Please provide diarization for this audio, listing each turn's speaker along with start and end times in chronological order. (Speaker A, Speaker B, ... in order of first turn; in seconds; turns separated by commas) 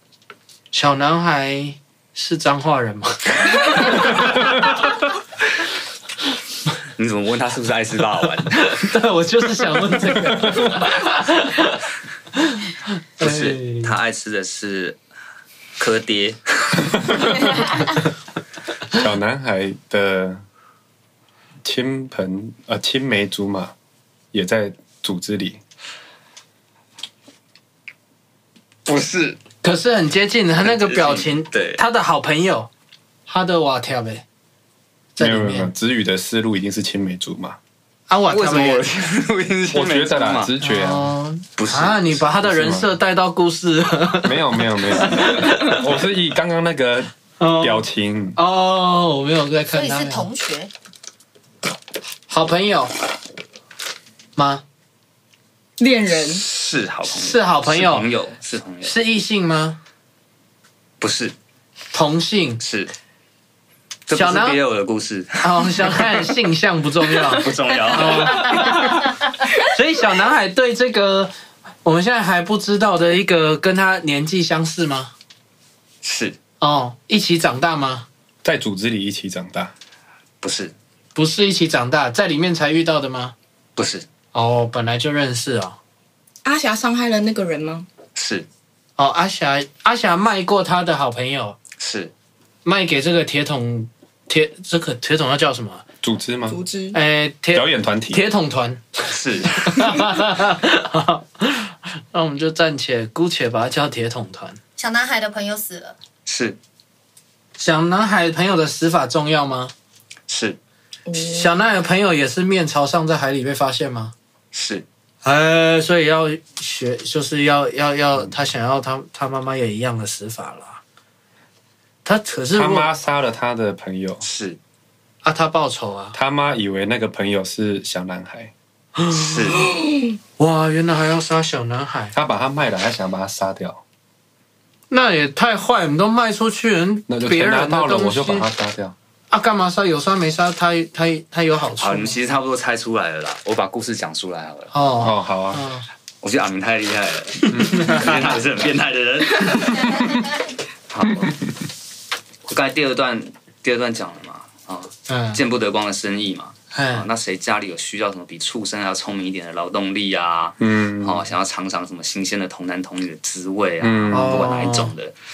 Speaker A: 0.7-4.7, Speaker B: 7.0-8.9, Speaker A: 8.5-11.8, Speaker A: 12.4-13.9, Speaker B: 13.2-15.0, Speaker B: 15.8-17.0, Speaker C: 18.9-20.4, Speaker C: 21.6-23.7, Speaker C: 24.3-25.6, Speaker B: 28.9-29.4, Speaker A: 29.6-32.7, Speaker B: 30.6-31.8, Speaker A: 33.3-34.2, Speaker A: 35.1-35.7, Speaker C: 35.2-37.6, Speaker A: 38.1-38.9, Speaker B: 38.3-40.5, Speaker C: 39.7-41.1, Speaker A: 40.6-45.8, Speaker B: 41.6-42.2, Speaker C: 42.3-42.9, Speaker C: 44.2-48.4, Speaker A: 47.4-50.3, Speaker D: 49.7-50.7, Speaker A: 52.3-53.0, Speaker A: 54.4-54.6, Speaker E: 55.8-56.4, Speaker B: 56.3-59.0, Speaker A: 57.1-58.1, Speaker A: 58.8-59.8, Speaker B: 61.0-61.3, Speaker A: 61.9-62.6, Speaker B: 62.6-62.9, Speaker B: 64.1-66.3, Speaker A: 64.1-64.6, Speaker A: 65.4-75.1, Speaker B: 67.1-68.8, Speaker B: 76.0-76.4, Speaker A: 76.6-78.0, Speaker C: 78.4-79.7, Speaker B: 80.4-80.7, Speaker A: 81.1-83.3, Speaker B: 83.8-84.0, Speaker A: 84.3-85.8, Speaker E: 86.4-87.9, Speaker B: 88.1-88.5, Speaker A: 89.0-91.6, Speaker B: 91.8-92.1, Speaker A: 92.6-95.8, Speaker C: 96.0-96.6, Speaker E: 96.5-97.0, Speaker A: 96.9-104.6, Speaker C: 97.5-98.2, Speaker B: 99.1-100.0, Speaker D: 104.8-105.9, Speaker B: 106.2-106.6, Speaker A: 107.6-109.7, Speaker B: 110.3-110.6, Speaker E: 111.0-111.5, Speaker A: 111.1-114.1, Speaker B: 114.5-114.8, Speaker A: 115.2-120.8, Speaker A: 122.0-122.9, Speaker C: 122.5-124.2, Speaker B: 124.2-124.6, Speaker A: 125.2-126.2, Speaker C: 126.1-128.5, Speaker A: 129.0-129.7, Speaker B: 129.1-129.7, Speaker A: 130.4-132.1, Speaker C: 132.1-133.8, Speaker A: 134.9-138.5, Speaker C: 137.1-138.9, Speaker A: 139.3-142.1, Speaker B: 141.8-144.7, Speaker A: 144.7-145.8, Speaker C: 145.0-145.6, Speaker B: 146.2-150.3, Speaker C: 147.5-148.4, Speaker A: 147.5-148.2, Speaker D: 149.8-150.3, Speaker B: 150.9-151.3, Speaker B: 152.4-165.1, Speaker A: 155.1-155.4, Speaker A: 156.7-157.1, Speaker C: 160.6-161.2, Speaker C: 163.8-164.4, Speaker A: 164.1-164.9